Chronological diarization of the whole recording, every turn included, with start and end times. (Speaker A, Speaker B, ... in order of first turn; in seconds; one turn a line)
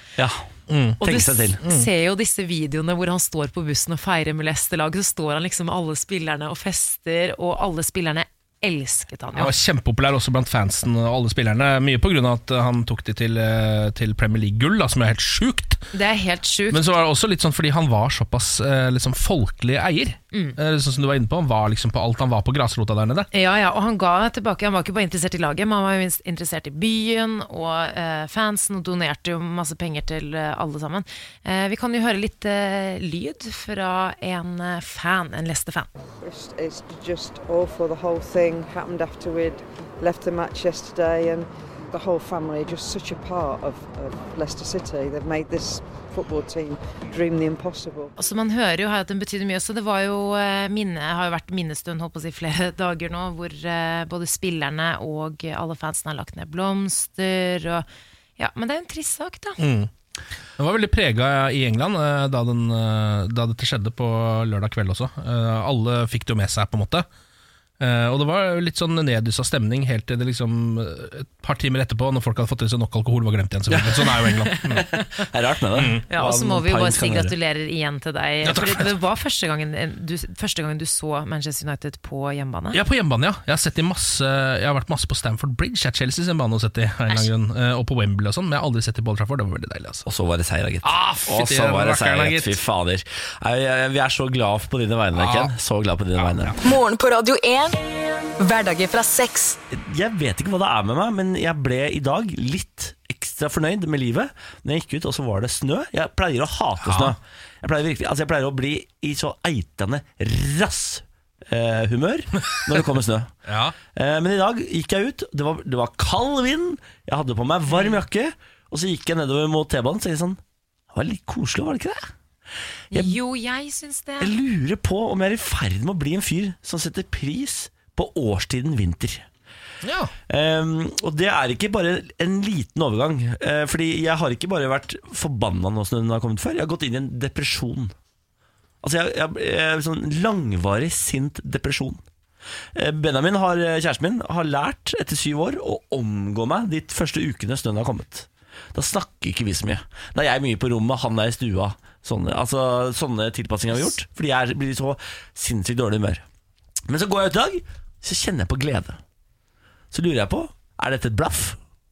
Speaker A: 0.2-0.5
Speaker B: 0.7-1.0
Speaker A: 1.0-1.6
Speaker C: 1.0-9.5
Speaker B: 1.6-1.9
Speaker B: 9.3-15.8
Speaker C: 15.9-16.8
Speaker B: 16.7-23.3
Speaker C: 20.3-20.6
Speaker C: 23.3-35.9
Speaker D: 36.2-48.1
Speaker C: 48.2-57.9
Speaker C: 58.4-59.6
Speaker B: 59.6-59.9
Speaker B: 60.6-67.0
Speaker B: 67.8-74.8
Speaker A: 73.7-77.3
Speaker B: 75.7-76.0
Speaker C: 76.1-82.8
Speaker B: 78.4-78.9
Speaker B: 82.7-90.0
Speaker A: 90.0-96.5
Speaker B: 90.8-92.6
Speaker B: 95.1-95.5
Speaker B: 96.2-96.6
Speaker E: 96.6-97.8
Speaker E: 98.4-99.6
Speaker A: 99.7-113.3
Speaker B: 106.8-107.1
Speaker B: 113.5-113.7
Speaker A: 113.9-120.4
Speaker C: 117.7-118.0
Speaker A: 120.9-122.1
Speaker A: 122.9-123.2
Speaker C: 122.9-124.3
Speaker A: 124.2-129.2
Speaker B: 129.8-130.1
Speaker A: 130.3-137.9
Speaker A: 138.8-142.0
Speaker A: 142.7-156.2
Speaker A: 156.9-159.0
Speaker A: 159.9-161.6